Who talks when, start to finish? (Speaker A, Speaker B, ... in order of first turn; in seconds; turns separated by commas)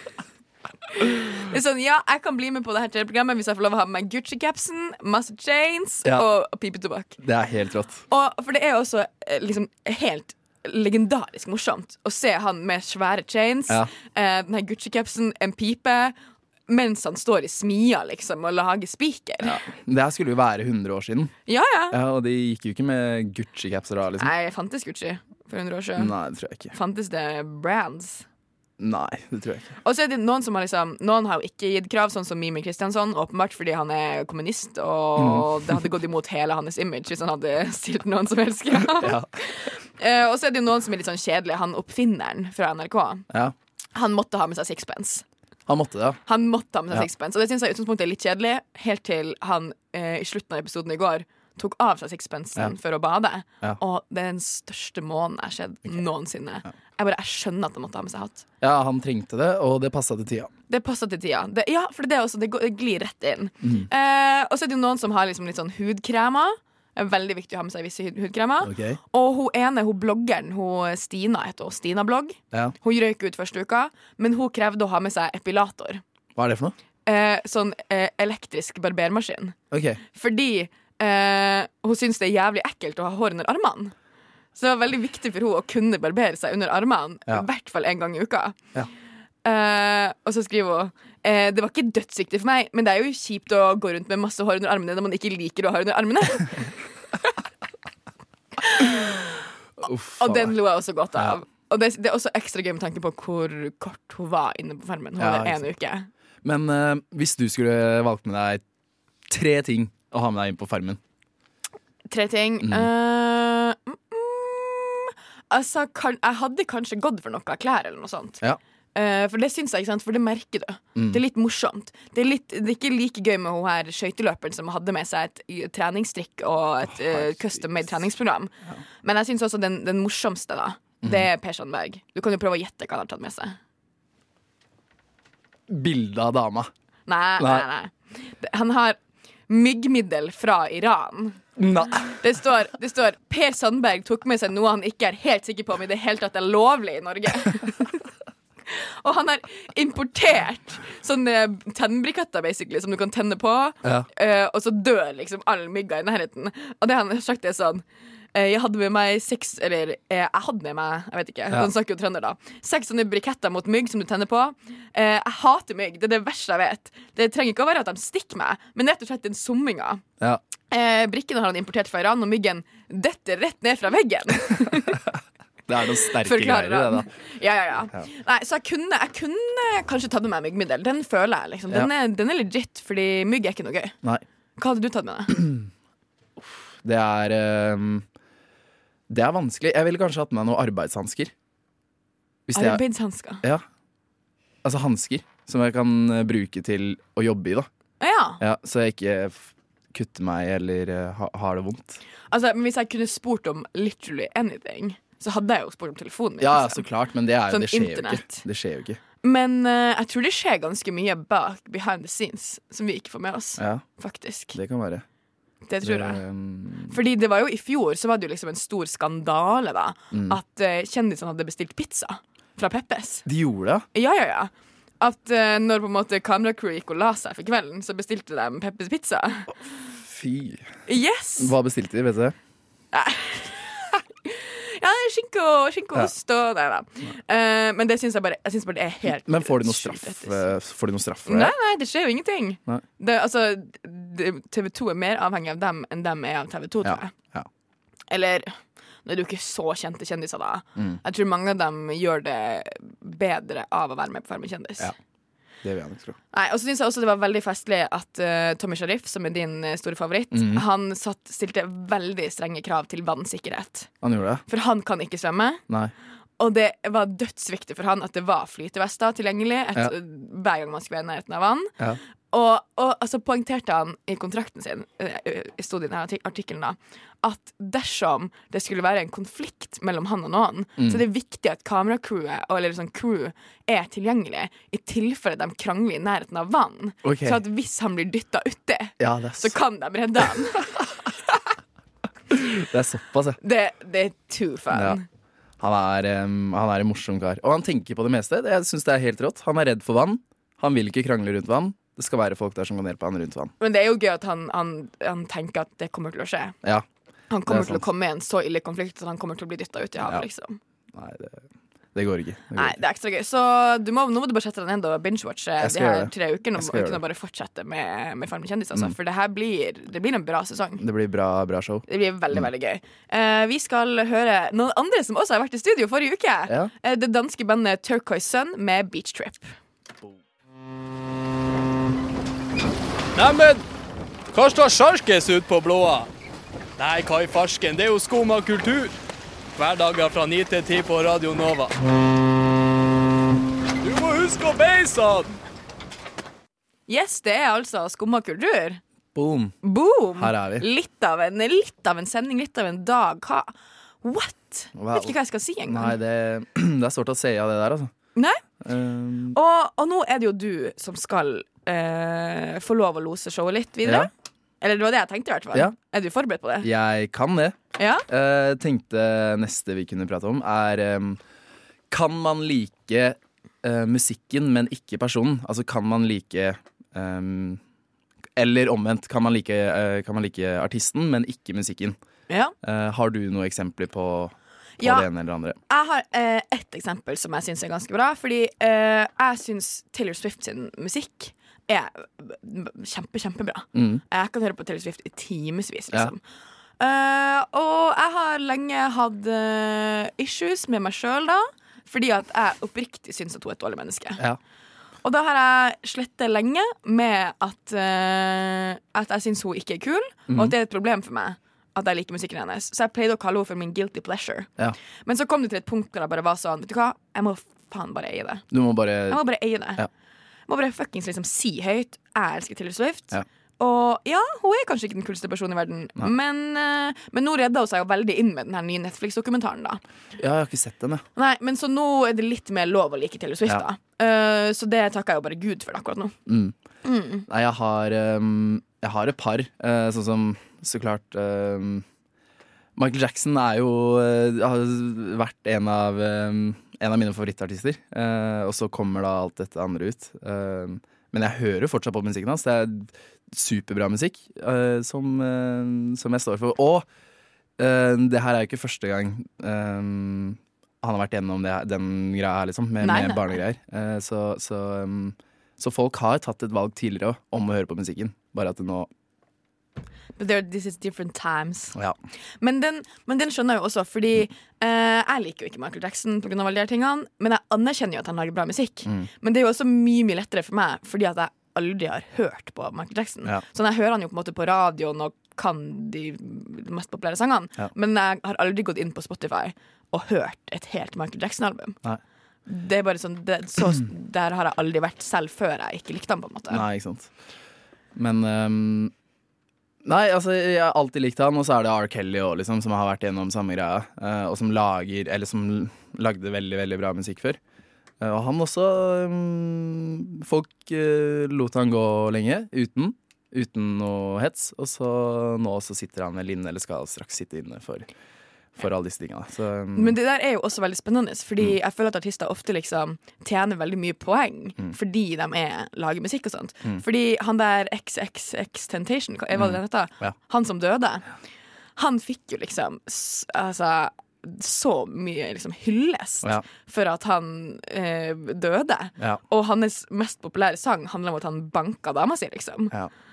Speaker A: 0.9-7.2, Speaker B: 7.2-8.0, Speaker A: 8.1-16.1, Speaker A: 16.7-19.6, Speaker B: 19.4-21.3, Speaker A: 21.5-22.0, Speaker B: 21.9-24.3, Speaker A: 24.2-26.1, Speaker B: 26.0-26.7, Speaker A: 26.7-28.2, Speaker B: 28.8-29.7, Speaker A: 29.8-43.2, Speaker B: 35.2-35.8, Speaker B: 38.9-39.3, Speaker B: 43.3-43.5, Speaker A: 43.9-45.2, Speaker B: 45.7-46.2, Speaker A: 46.2-58.5, Speaker B: 58.6-60.5, Speaker A: 60.7-76.0, Speaker B: 63.6-63.9, Speaker B: 68.6-69.0, Speaker B: 76.3-76.7, Speaker A: 77.0-79.5, Speaker B: 79.7-80.0, Speaker A: 80.1-83.9, Speaker A: 84.5-88.6, Speaker A: 89.4-96.7, Speaker A: 98.6-99.2, Speaker B: 99.8-100.5, Speaker A: 100.2-106.1, Speaker B: 105.2-105.6, Speaker B: 106.4-108.6, Speaker B: 109.3-111.0, Speaker A: 112.1-118.4, Speaker B: 112.6-112.9, Speaker A: 118.9-133.6, Speaker B: 120.9-121.2, Speaker B: 126.9-127.8, Speaker B: 135.7-136.7, Speaker A: 137.1-141.4, Speaker B: 137.4-137.7, Speaker B: 141.6-142.2, Speaker A: 142.2-148.0, Speaker A: 148.7-157.8, Speaker A: 158.3-170.0, Speaker A: 170.7-175.0, Speaker B: 175.7-177.1, Speaker A: 176.1-183.9, Speaker A: 184.6-185.4, Speaker B: 185.3-185.7, Speaker B: 186.4-188.1, Speaker B: 189.1-191.3, Speaker B: 192.5-192.8, Speaker A: 192.5-193.4, Speaker B: 194.6-197.7, Speaker A: 198.0-198.4, Speaker B: 198.4-202.0, Speaker A: 202.3-206.8, Speaker B: 206.4-209.0, Speaker A: 207.5-208.4, Speaker A: 209.2-214.6, Speaker B: 213.6-213.8, Speaker B: 214.5-215.0, Speaker A: 215.7-216.2, Speaker B: 215.8-216.9, Speaker A: 216.9-223.2, Speaker B: 220.1-220.4, Speaker B: 223.2-223.8, Speaker A: 223.9-229.5, Speaker B: 230.0-230.7, Speaker A: 230.9-231.5, Speaker B: 231.4-232.3, Speaker A: 232.9-240.5, Speaker B: 239.0-241.5, Speaker A: 241.2-247.1, Speaker B: 246.8-247.5, Speaker A: 248.1-248.5, Speaker A: 249.0-254.9, Speaker B: 255.6-256.1, Speaker A: 256.3-263.9, Speaker B: 260.3-260.6, Speaker B: 264.0-264.4, Speaker A: 264.5-265.6, Speaker A: 266.4-271.8, Speaker A: 272.3-290.9, Speaker B: 280.8-281.0, Speaker B: 287.0-287.4, Speaker B: 289.0-289.5, Speaker B: 292.3-293.4, Speaker A: 293.4-295.0, Speaker B: 294.7-295.0, Speaker B: 295.6-303.5, Speaker A: 303.6-306.6, Speaker A: 307.3-310.6, Speaker B: 307.4-307.8, Speaker B: 310.9-312.8, Speaker A: 312.5-320.8, Speaker B: 315.6-317.0, Speaker B: 320.8-322.4, Speaker A: 321.9-329.5, Speaker C: 333.1-333.6, Speaker C: 334.3-336.1, Speaker C: 336.8-339.0, Speaker C: 339.6-341.8, Speaker C: 343.8-345.4, Speaker A: 346.9-348.8, Speaker B: 349.1-349.5, Speaker A: 349.6-353.5, Speaker B: 350.2-350.6, Speaker A: 354.0-355.9, Speaker B: 354.7-357.9, Speaker B: 358.6-359.4, Speaker A: 359.3-364.1, Speaker B: 363.8-364.1, Speaker A: 364.6-366.7, Speaker B: 366.6-371.2, Speaker A: 367.8-368.0, Speaker B: 371.9-377.6, Speaker B: 378.4-381.9, Speaker A: 382.3-382.5, Speaker B: 382.6-385.6, Speaker A: 384.8-385.1, Speaker A: 385.7-396.2, Speaker B: 393.7-394.0, Speaker A: 396.8-404.2, Speaker A: 405.0-414.5, Speaker B: 410.3-410.5, Speaker A: 415.0-418.4, Speaker B: 418.5-419.2, Speaker A: 419.1-419.9, Speaker A: 420.5-429.8, Speaker B: 430.2-431.0, Speaker A: 431.1-436.1, Speaker B: 436.3-436.6, Speaker A: 436.8-437.2, Speaker B: 437.2-441.8, Speaker B: 442.8-456.9, Speaker B: 457.6-468.9, Speaker A: 462.8-463.4, Speaker A: 470.2-471.8, Speaker A: 472.4-491.8, Speaker A: 492.5-496.6, Speaker B: 496.5-497.1, Speaker B: 497.9-498.9, Speaker B: 499.8-507.4, Speaker B: 508.0-517.9, Speaker B: 518.5-520.0, Speaker A: 519.7-531.0, Speaker B: 529.3-530.1, Speaker A: 531.8-542.7